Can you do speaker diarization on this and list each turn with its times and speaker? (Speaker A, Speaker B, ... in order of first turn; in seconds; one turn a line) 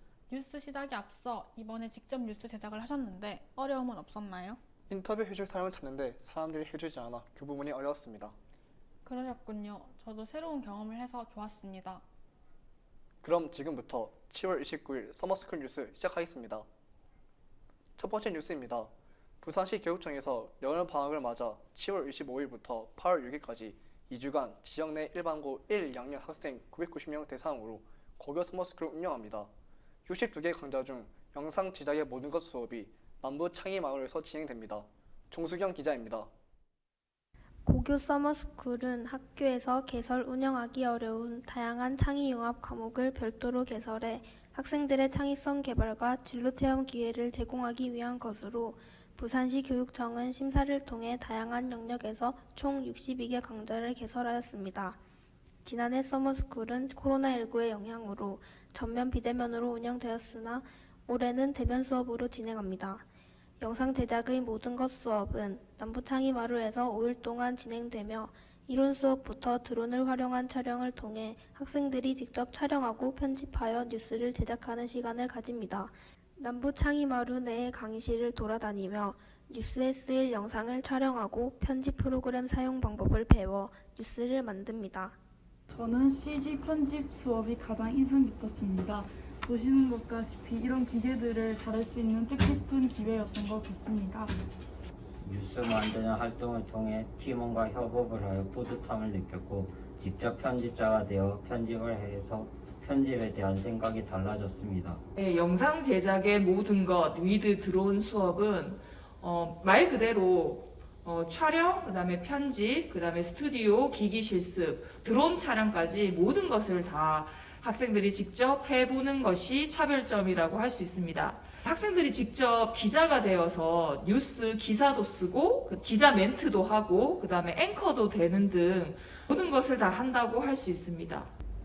Speaker A: 0.3-4.6
Speaker B: 4.9-8.3
Speaker A: 9.1-12.0
Speaker B: 13.2-16.7
Speaker B: 18.0-18.9
Speaker B: 19.4-29.5
Speaker B: 30.1-36.3
Speaker C: 37.7-55.0
Speaker C: 55.6-63.0
Speaker C: 63.6-85.2
Speaker D: 85.7-94.4
Speaker E: 95.2-105.0
Speaker F: 105.2-131.3